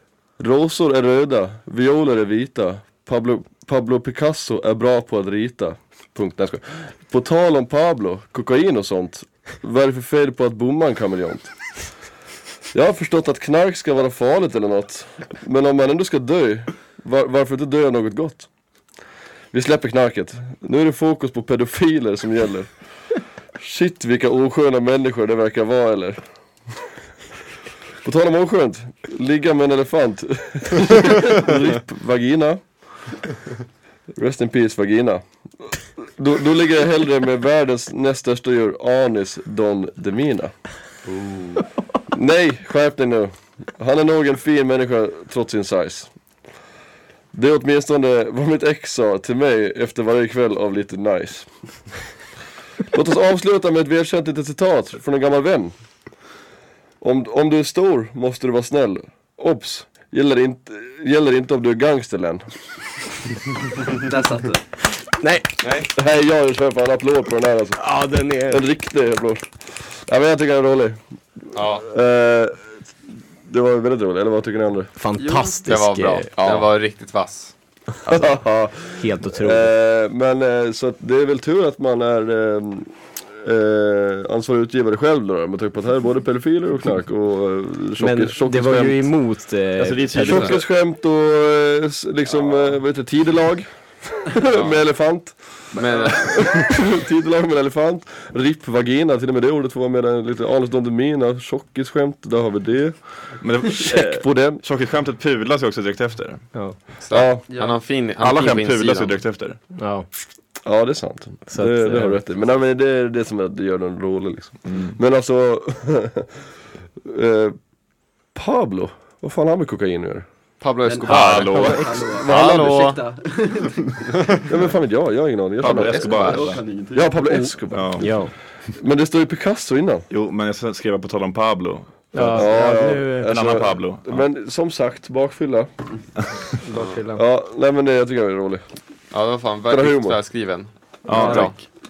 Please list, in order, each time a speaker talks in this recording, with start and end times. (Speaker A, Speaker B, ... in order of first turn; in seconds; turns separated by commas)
Speaker A: 0.4-11.5, Speaker A: 12.7-18.5, Speaker A: 19.5-22.8, Speaker A: 23.6-26.2, Speaker A: 28.0-33.1, Speaker A: 34.1-35.2, Speaker A: 35.8-40.5, Speaker A: 42.1-46.1, Speaker A: 47.3-51.5, Speaker A: 52.9-55.7, Speaker A: 57.0-62.4, Speaker B: 63.9-64.7, Speaker C: 65.2-65.5, Speaker D: 65.6-65.9, Speaker A: 66.0-71.0, Speaker C: 67.8-68.6, Speaker D: 71.5-71.9, Speaker A: 71.6-72.8, Speaker A: 73.4-74.9, Speaker C: 75.0-76.3, Speaker B: 75.2-75.6, Speaker D: 75.7-77.5, Speaker A: 78.1-89.1, Speaker C: 79.0-79.7, Speaker C: 88.0-90.6, Speaker E: 89.8-90.6, Speaker A: 90.2-104.6, Speaker D: 94.5-94.8, Speaker B: 95.7-96.6, Speaker D: 95.8-96.1, Speaker E: 103.4-106.5, Speaker D: 107.0-109.2, Speaker A: 107.1-107.4, Speaker B: 107.5-107.8, Speaker E: 108.2-109.6, Speaker C: 109.8-110.1, Speaker A: 110.6-116.3, Speaker C: 111.5-112.2, Speaker E: 114.7-115.0, Speaker A: 117.0-117.5, Speaker A: 118.3-120.3, Speaker D: 120.6-123.0, Speaker B: 120.8-124.3, Speaker E: 121.1-122.2, Speaker C: 121.5-122.4, Speaker D: 124.2-124.5, Speaker A: 124.5-126.2, Speaker D: 125.6-126.6, Speaker E: 125.6-126.6, Speaker B: 125.9-127.2, Speaker A: 126.9-130.1, Speaker E: 127.7-128.2, Speaker C: 128.0-128.3, Speaker E: 130.1-132.6, Speaker C: 132.1-133.4, Speaker A: 132.2-135.7, Speaker E: 133.2-134.2, Speaker C: 136.6-137.2, Speaker A: 137.2-138.7, Speaker D: 139.1-141.6, Speaker A: 139.7-140.2, Speaker E: 141.1-141.7, Speaker C: 141.1-141.7